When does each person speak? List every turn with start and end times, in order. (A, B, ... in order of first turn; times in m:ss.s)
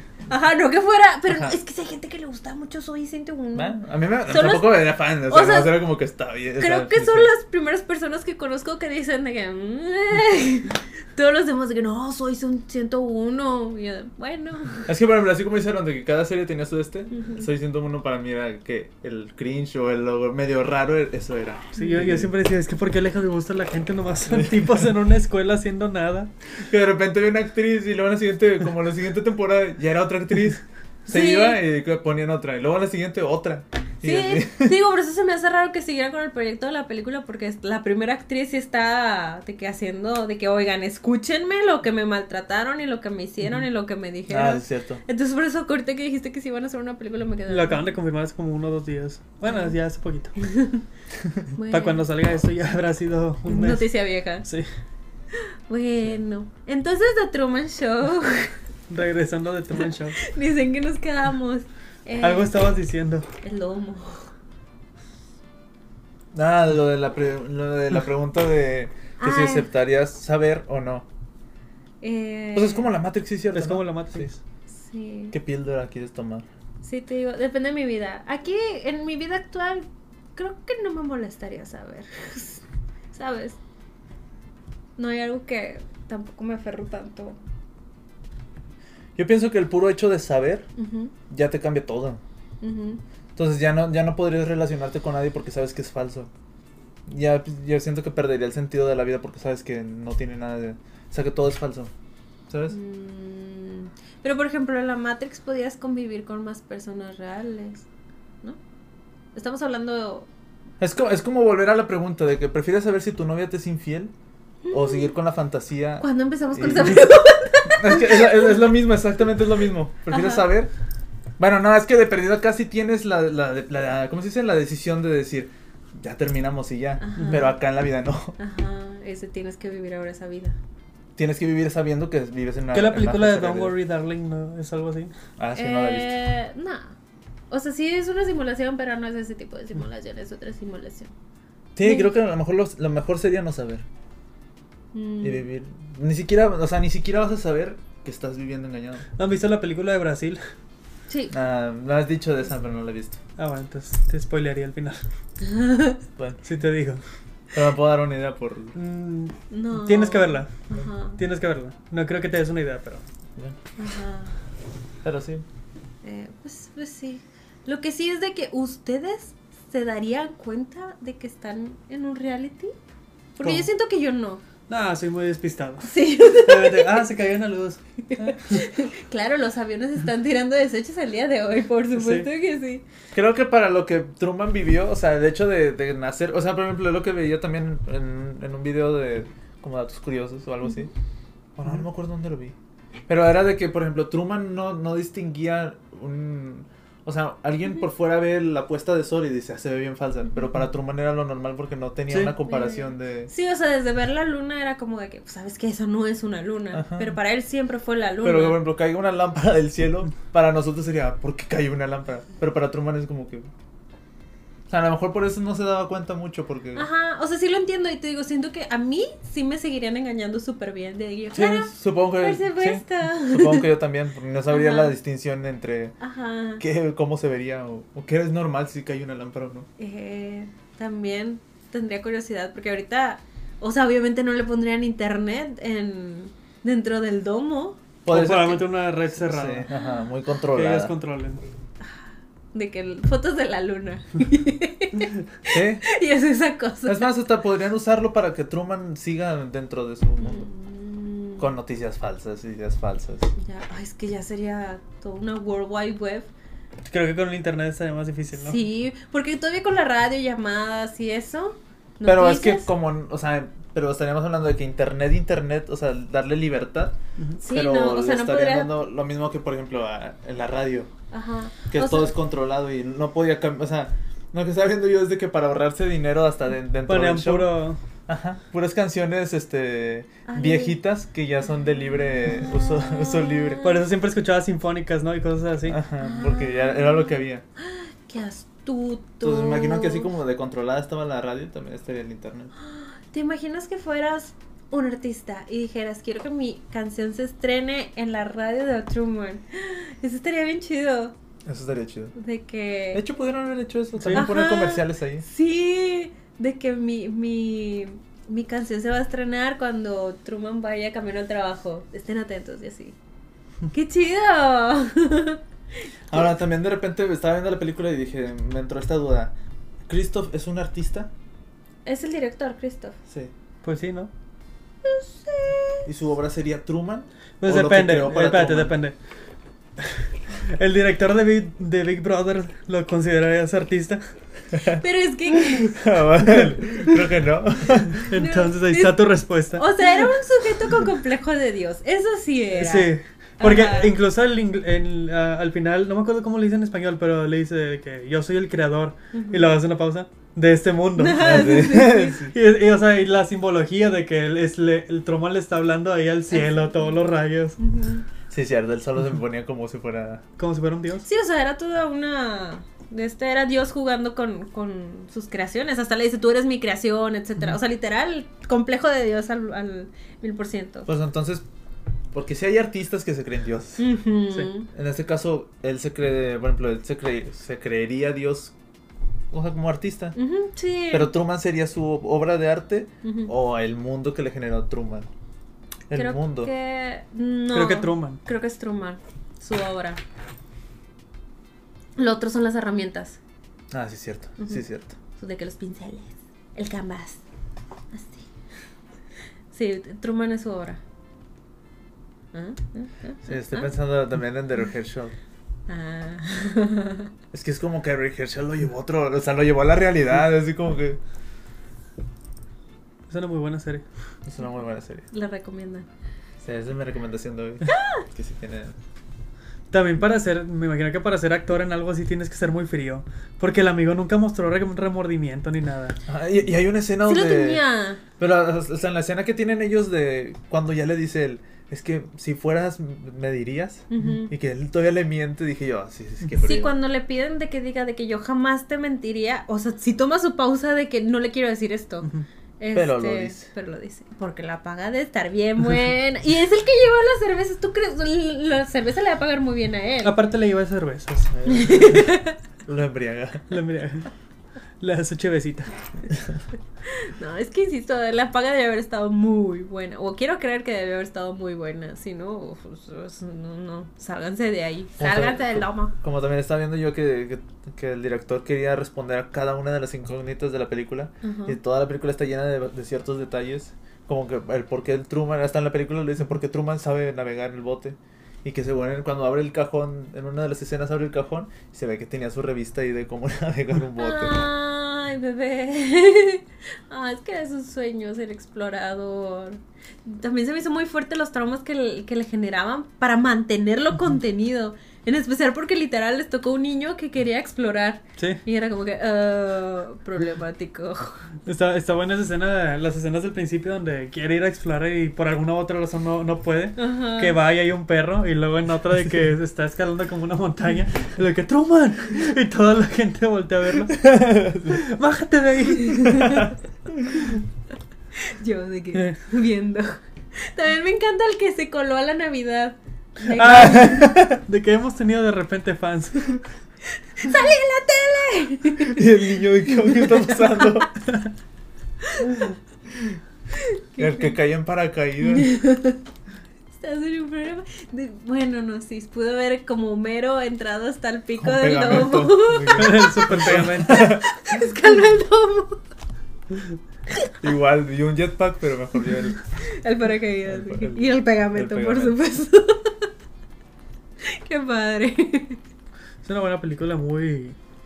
0:00.3-0:05.7 A
0:01.3-0:01.6 B
0:03.5-0:07.3 B
0:06.6-0:14.8 A
0:14.8-0:22.3 B
0:17.1-0:17.4 A
0:21.8-0:26.3 C
0:24.3-0:24.9 B
0:26.7-0:34.8 B
0:31.1-0:31.6 A
0:34.0-0:47.9 A
0:44.3-0:45.0 B
0:47.5-0:50.4 C
0:49.4-0:49.7 A
0:50.4-0:50.8 A
0:51.6-0:52.1 A
0:51.7-0:53.9 C
0:53.4-0:54.5 A
0:55.3-0:58.5 A
0:58.9-1:00.2 C
1:00.2-1:02.6 A
1:02.2-1:03.3 C
1:03.4-1:04.3 A
1:06.3-1:11.1 B
1:09.2-1:09.7 A
1:12.0-1:12.9 A
1:12.5-1:14.3 B
1:13.5-1:14.4 C
1:14.7-1:15.3 A
1:15.3-1:16.5 B
1:16.8-1:23.6 A
1:25.0-1:27.4 A
1:29.2-1:30.7 B
1:30.8-1:31.1 A
1:31.3-1:32.2 B
1:32.6-1:33.0 A
1:33.4-1:36.3 B
1:37.1-1:41.9 B
1:42.5-1:42.8 B
1:42.7-1:47.8 A
1:49.3-1:50.3 A
1:50.8-1:54.1 B
1:54.6-1:55.1 A
1:54.7-1:57.0 B
1:56.0-1:58.5 A
1:57.7-2:00.7 B
2:00.1-2:00.4 A
2:01.4-2:08.4 B
2:07.0-2:07.6 A
2:08.4-2:10.6 A
2:11.2-2:13.7 B
2:12.7-2:15.1 C
2:15.4-2:16.2 B
2:15.5-2:16.9 A
2:17.5-2:21.1 A
2:21.7-2:23.8 B
2:21.8-2:22.1 A
2:24.9-2:25.4 A
2:25.2-2:29.1 B
2:29.2-2:30.4 C
2:31.1-2:31.3 A
2:31.3-2:33.2 B
2:33.4-2:35.0 C
2:35.4-2:36.0 A
2:36.2-2:36.4 B
2:36.4-2:37.0 C
2:37.5-2:38.7 B
2:38.7-2:40.5 C
2:39.5-2:41.2 A
2:41.2-2:43.0 C
2:43.8-2:44.4 A
2:45.0-2:45.4 B
2:46.0-2:52.7 A
2:53.4-2:54.4 A
2:53.4-2:53.6 B
2:54.7-2:58.6 C
2:55.8-2:57.1 A
2:58.1-3:02.8 A
3:01.9-3:02.3 C
3:03.1-3:10.9 B
3:11.6-3:12.5 B
3:13.1-3:23.3 B
3:22.4-3:28.6 A
3:26.7-3:27.1 B
3:28.2-3:33.5 B
3:34.7-3:36.9 B
3:36.7-3:43.7 A
3:41.3-3:46.0 B
3:44.5-3:44.9 A
3:46.0-3:46.6 A
3:46.6-3:49.7 B
3:49.8-3:57.8 A
3:58.0-4:00.9 B
3:58.1-3:59.7 C
4:00.5-4:01.4 C
4:02.5-4:07.0 A
4:05.5-4:05.8 B
4:06.8-4:10.5 B
4:10.2-4:11.5 A
4:11.4-4:13.3 B
4:13.4-4:16.3 A
4:16.9-4:18.6 C
4:18.3-4:22.7 A
4:22.0-4:30.9 B
4:27.4-4:28.7 A
4:31.1-4:32.1 A
4:31.7-4:43.7 B
4:36.9-4:37.8 C
4:40.3-4:40.8 A
4:42.2-4:43.8 A
4:43.6-4:45.8 C
4:45.7-4:47.4 B
4:46.0-4:50.1 A
4:49.2-4:52.5 B
4:52.6-5:01.1 A
5:01.4-5:02.2 B
5:02.2-5:03.0 A
5:02.9-5:05.2 B
5:04.0-5:04.2 C
5:04.1-5:13.0 A
5:13.7-5:15.4 A
5:16.1-5:19.3 B
5:19.9-5:21.1 B
5:21.8-5:23.0 A
5:23.6-5:24.1 C
5:24.8-5:25.8 A
5:25.8-5:28.7 B
5:27.4-5:29.0 C
5:29.8-5:34.0 C
5:34.7-5:35.7 A
5:35.7-5:38.0 B
5:37.9-5:39.6 C
5:38.1-5:43.9 A
5:42.5-5:57.6 C
5:49.1-5:49.6 A
5:51.0-5:52.2 A
5:51.2-5:52.3 B
5:56.3-5:56.9 A
5:57.6-5:58.0 A
5:58.3-6:00.2 B
6:00.4-6:01.1 C
6:01.0-6:10.9 A
6:10.9-6:11.4 B
6:12.1-6:13.9 B
6:13.8-6:14.7 A
6:14.7-6:18.5 B
6:19.3-6:20.2 B
6:20.2-6:21.1 A
6:20.9-6:25.1 B
6:23.0-6:23.3 A
6:25.9-6:26.5 B
6:25.9-6:30.0 A
6:27.5-6:28.2 C
6:32.0-6:33.2 A
6:33.7-6:35.0 B
6:35.2-6:37.2 A
6:37.9-6:38.2 A
6:39.5-6:40.8 A
6:42.3-6:43.7 A
6:43.2-6:45.2 B
6:45.7-6:47.1 A
6:47.3-6:51.0 B
6:53.1-6:53.8 C
6:54.2-6:55.0 B
6:55.1-6:55.9 A
6:56.4-6:58.7 B
6:57.7-6:58.0 A
6:59.7-7:06.0 C
7:06.1-7:07.6 B
7:07.0-7:08.0 A
7:08.2-7:16.7 B
7:13.9-7:14.3 A
7:16.4-7:22.1 A
7:22.6-7:30.1 A
7:22.7-7:23.5 B
7:30.0-7:31.3 C
7:31.3-7:33.6 B
7:31.4-7:32.4 A
7:33.5-7:34.1 C
7:34.8-7:35.8 C
7:36.8-7:45.9 A
7:45.0-8:04.4 B
7:51.2-7:51.6 A
8:04.0-8:21.2 A
8:18.2-8:18.4 C
8:21.4-8:34.1 C
8:26.8-8:27.4 A
8:34.0-8:34.8 B
8:34.6-8:36.5 C
8:36.2-8:36.9 B
8:38.2-8:44.0 A
8:43.3-8:46.4 C
8:43.5-8:44.4 B
8:47.1-8:49.0 A
8:48.8-8:50.9 B
8:49.9-8:50.8 A
8:52.0-8:52.4 A
8:53.5-8:54.3 A
8:54.0-8:55.5 B
8:55.3-8:56.0 A
8:56.7-9:05.8 A
9:01.4-9:04.2 B
9:02.7-9:04.1 C
9:07.4-9:09.4 B
9:09.6-9:13.1 A
9:10.4-9:12.2 B
9:14.2-9:15.6 A
9:16.2-9:17.6 C